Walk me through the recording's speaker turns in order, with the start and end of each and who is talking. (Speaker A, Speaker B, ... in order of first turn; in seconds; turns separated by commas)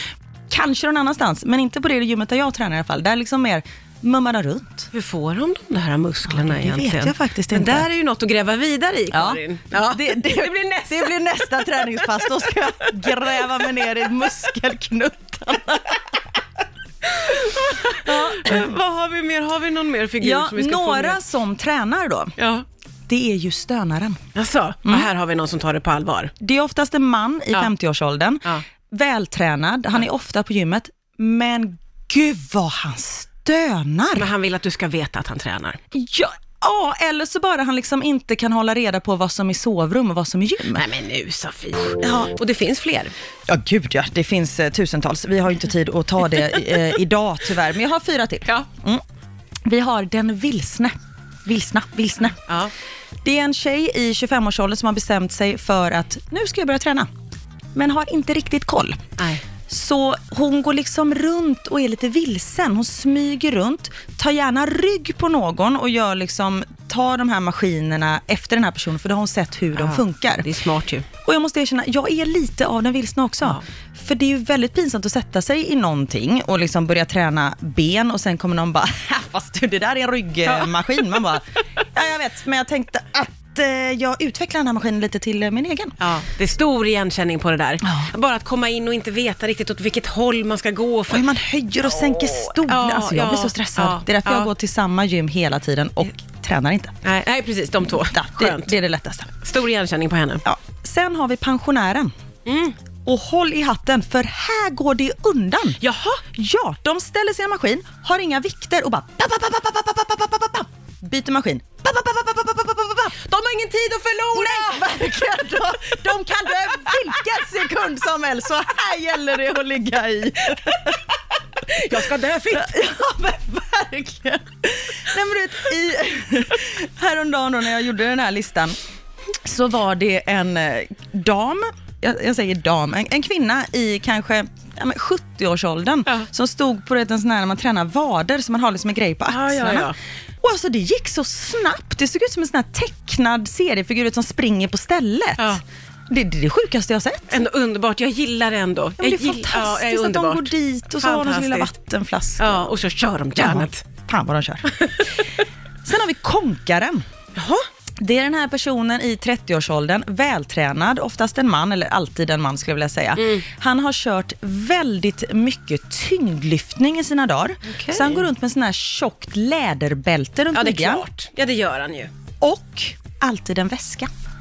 Speaker A: 0.5-4.9, Speaker B: 4.9-11.1, Speaker A: 6.3-7.8, Speaker A: 9.1-16.0, Speaker B: 17.0-21.2, Speaker A: 18.0-18.7, Speaker A: 20.2-22.3, Speaker B: 22.4-22.6, Speaker A: 23.1-24.2, Speaker B: 24.3-26.3, Speaker A: 26.4-34.3, Speaker B: 34.1-35.8, Speaker A: 35.9-40.9, Speaker B: 40.7-43.1, Speaker A: 42.0-42.3, Speaker A: 43.5-49.0, Speaker A: 49.6-50.9, Speaker A: 51.5-52.4, Speaker B: 52.5-52.7, Speaker A: 53.2-57.1, Speaker A: 57.7-59.0, Speaker B: 59.2-59.4, Speaker A: 59.7-70.5, Speaker B: 69.7-71.0, Speaker A: 71.2-86.0, Speaker B: 80.5-80.7, Speaker B: 86.0-91.3, Speaker A: 87.8-88.1, Speaker A: 91.1-97.0, Speaker B: 92.3-94.5, Speaker B: 97.0-98.7, Speaker A: 97.9-99.3, Speaker B: 99.3-100.4, Speaker A: 100.4-102.1, Speaker B: 102.5-102.7, Speaker A: 103.0-105.8, Speaker B: 105.8-106.2, Speaker A: 106.3-113.1, Speaker B: 113.1-115.2, Speaker A: 114.3-121.0, Speaker B: 116.5-117.3, Speaker B: 121.7-122.7, Speaker A: 121.7-128.7, Speaker A: 129.4-147.4, Speaker B: 139.3-139.9, Speaker B: 147.3-151.7, Speaker A: 149.0-152.7, Speaker B: 152.4-153.8, Speaker A: 153.4-154.7, Speaker B: 154.7-155.4, Speaker A: 155.8-157.0, Speaker B: 157.3-157.7, Speaker A: 158.0-171.0, Speaker B: 163.2-163.4, Speaker B: 167.7-168.3, Speaker B: 170.5-172.1, Speaker A: 172.4-174.1